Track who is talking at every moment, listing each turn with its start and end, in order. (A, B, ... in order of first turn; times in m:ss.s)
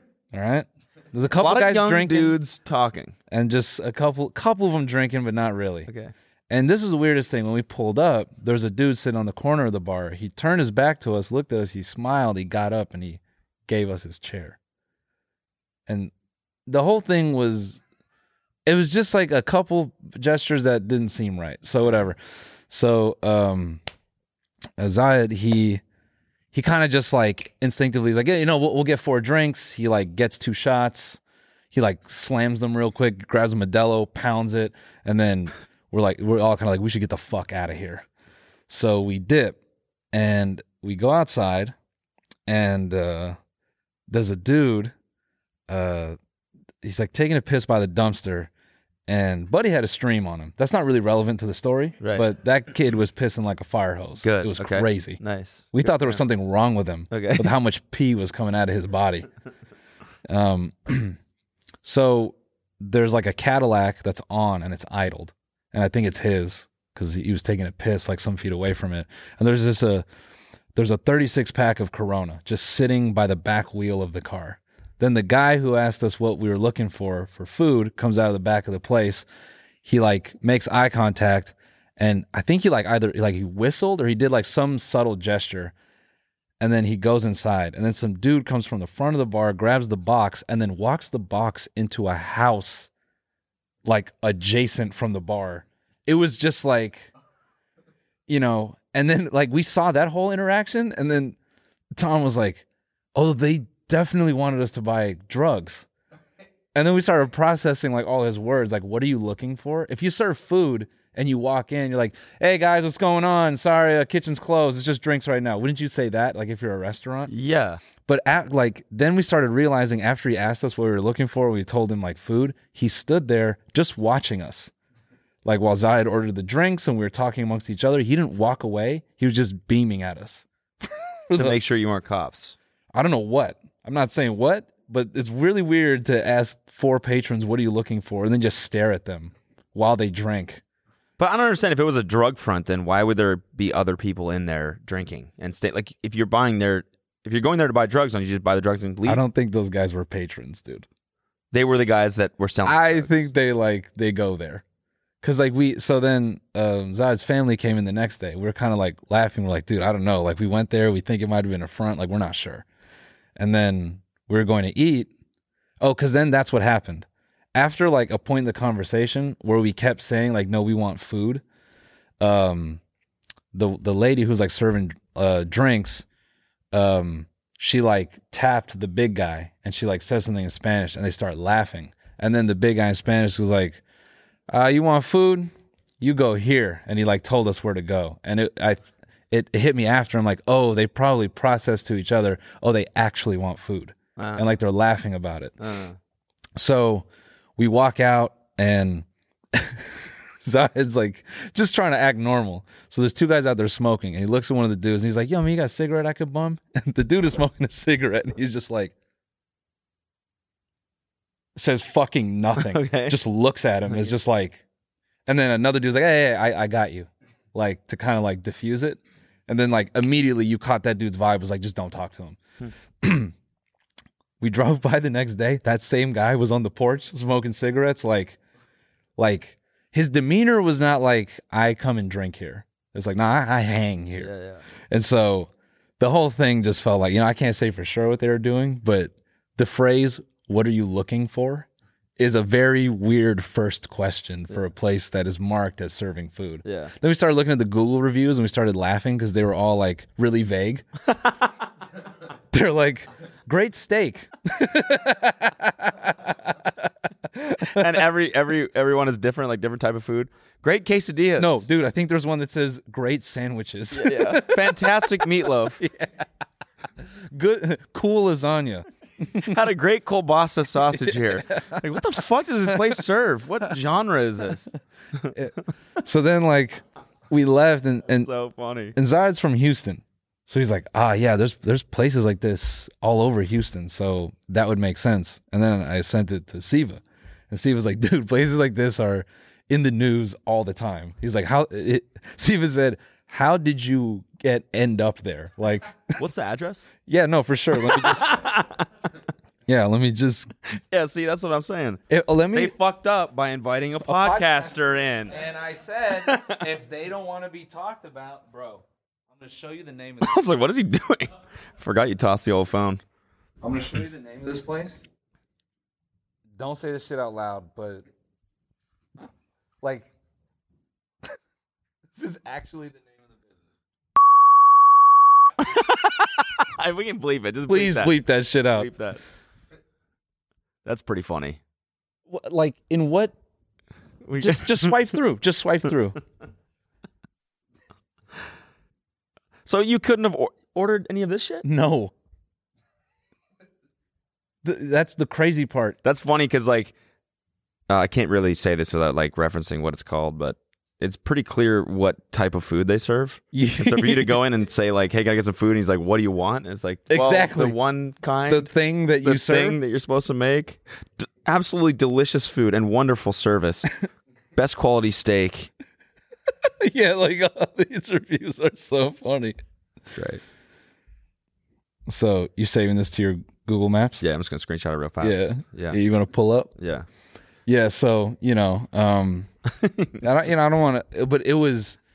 0:00.3-0:02.4 A
0:01.4-0:03.1 B
0:03.3-0:05.9 A
0:05.9-0:06.1 B
0:06.5-0:14.6 A
0:15.9-0:16.1 A
0:16.7-0:17.8 A
0:18.7-0:23.8 A
0:24.8-0:25.8 A
0:26.5-0:31.2 A
0:31.7-0:38.0 A
0:38.7-0:39.6 A
0:40.1-0:41.8 A
0:42.5-0:43.4 A
0:44.1-0:44.9 A
0:45.7-0:46.2 A
0:46.8-0:48.5 A
0:49.1-0:55.2 A
0:52.0-0:52.3 B
0:54.2-0:56.2 B
0:55.7-0:59.3 A
0:57.1-0:57.5 B
1:00.3-1:01.2 A
1:01.8-1:10.1 A
1:10.8-1:19.3 A
1:19.8-1:25.7 A
1:26.6-1:32.9 A
1:33.8-1:37.1 A
1:38.3-1:41.4 A
1:42.0-1:45.9 A
1:46.8-1:57.3 A
1:57.3-1:57.8 B
1:58.1-2:04.7 A
2:05.4-2:11.6 A
2:11.4-2:12.6 B
2:12.9-2:20.6 A
2:21.2-2:29.2 B
2:29.0-2:30.9 A
2:31.5-2:33.3 B
2:32.6-2:34.6 A
2:35.2-2:42.6 A
2:43.4-2:45.1 A
2:45.8-2:51.4 A
2:52.2-2:52.8 A
2:53.5-2:56.1 A
2:56.7-3:03.8 A
3:04.5-3:15.6 A
3:14.2-3:14.5 B
3:15.6-3:16.0 B
3:16.6-3:17.1 A
3:17.6-3:28.9 A
3:31.6-3:34.6 A
3:32.6-3:33.2 B
3:35.3-3:42.4 A
3:43.0-3:43.3 A
3:44.4-3:48.4 A
3:49.2-3:54.3 A
3:54.2-3:54.6 B
3:54.9-4:01.7 A
4:02.2-4:10.8 A
4:06.6-4:06.9 B
4:12.5-4:18.0 A
4:17.7-4:21.7 B
4:21.4-4:25.2 A
4:23.9-4:25.8 B
4:25.8-4:26.2 A
4:27.3-4:29.6 A
4:29.4-4:34.7 B
4:30.9-4:31.8 A
4:35.3-4:38.3 A
4:38.1-4:39.0 B
4:39.0-4:56.2 A
4:56.2-4:56.9 B
4:57.1-4:58.4 A
4:57.8-4:58.9 B
4:59.7-5:00.5 A
5:00.9-5:02.0 B
5:02.1-5:02.7 A
5:02.5-5:05.4 B
5:04.0-5:04.8 A
5:05.3-5:10.4 A
5:06.2-5:06.6 B
5:10.2-5:13.0 B
5:13.6-5:15.0 A
5:16.6-5:18.0 A
5:19.8-5:20.1 A
5:22.1-5:23.6 A
5:25.6-5:28.2 B
5:27.7-5:28.9 A
5:28.8-5:29.2 B
5:30.8-5:31.6 B
5:32.3-5:33.4 A
5:34.2-5:35.0 B
5:34.4-5:36.2 A
5:39.7-5:41.7 B
5:41.6-5:42.1 A
5:44.6-5:46.0 A
5:46.0-5:46.9 B
5:47.9-5:58.7 B
5:53.5-5:54.4 A
5:57.1-5:57.8 A
5:58.5-5:59.8 A
5:59.2-6:03.9 B
6:04.6-6:05.7 B
6:06.6-6:09.6 A
6:10.2-6:10.4 B
6:12.1-6:14.2 A
6:14.2-6:16.0 B
6:15.2-6:16.7 A
6:16.8-6:17.1 B
6:17.7-6:19.5 A
6:19.8-6:20.2 B
6:20.2-6:22.0 A